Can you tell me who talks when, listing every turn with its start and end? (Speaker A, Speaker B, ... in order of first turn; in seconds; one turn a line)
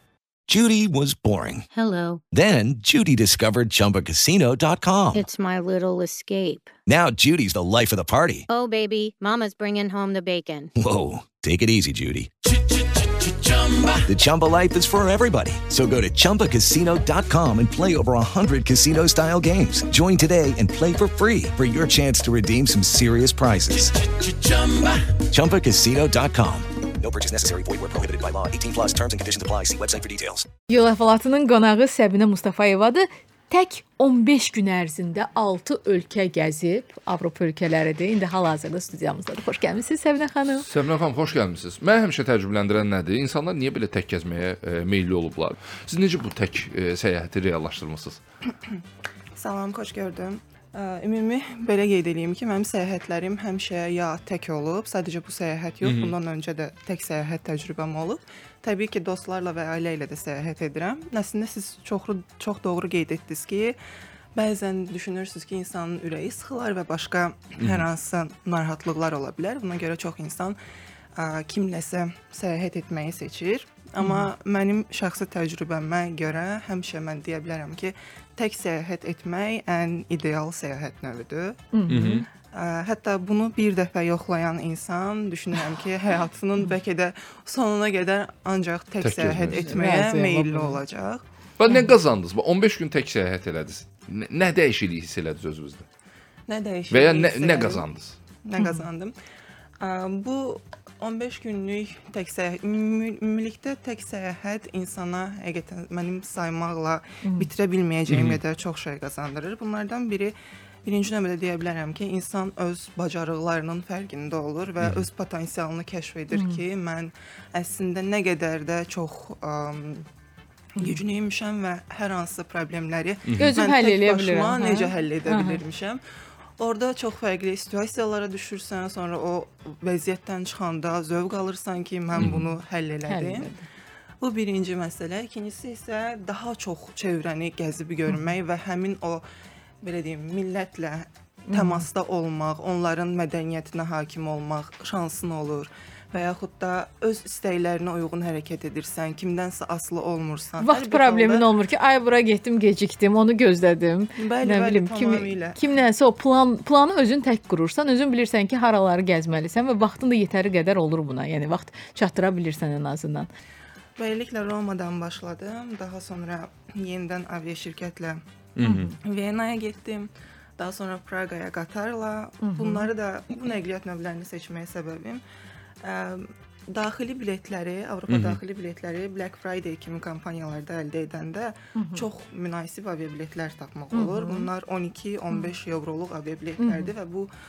Speaker A: 0.5-1.6
Speaker B: 1.7-2.2
Speaker A: 2.3-5.2
Speaker B: 5.1-6.7
Speaker A: 6.9-8.4
Speaker B: 8.5-10.7
Speaker A: 10.8-12.3
Speaker A: 13.6-30.5
Speaker C: 30.7-40.6
Speaker D: 40.5-48.2
Speaker E: 49.4-63.8
Speaker D: 55.8-56.1
Speaker E: 64.3-70.6
Speaker E: 71.2-81.7
Speaker C: 74.0-74.3
Speaker C: 81.7-82.2
Speaker D: 81.9-82.2
Speaker E: 82.4-91.2
Speaker D: 89.0-89.7
Speaker C: 89.6-90.8
Speaker D: 91.6-95.8
Speaker E: 96.5-97.8
Speaker D: 96.9-98.1
Speaker E: 98.4-99.1
Speaker C: 98.6-98.8
Speaker E: 99.8-120.1
Speaker C: 107.2-107.5
Speaker D: 108.1-108.4
Speaker D: 114.8-115.1
Speaker C: 116.3-116.6
Speaker E: 120.8-126.0
Speaker C: 123.4-125.6
Speaker E: 126.6-133.5
Speaker C: 132.1-132.4
Speaker D: 132.2-132.4
Speaker C: 133.1-133.6
Speaker E: 134.2-139.2
Speaker E: 139.8-151.4
Speaker C: 141.5-141.8
Speaker C: 150.6-163.3
Speaker E: 154.2-155.6
Speaker E: 164.0-168.2
Speaker D: 168.6-168.9
Speaker C: 168.6-168.9
Speaker E: 169.0-175.2
Speaker C: 172.4-172.9
Speaker E: 175.8-187.3
Speaker D: 178.1-178.4
Speaker C: 181.8-182.0
Speaker C: 183.9-184.5
Speaker C: 186.6-186.9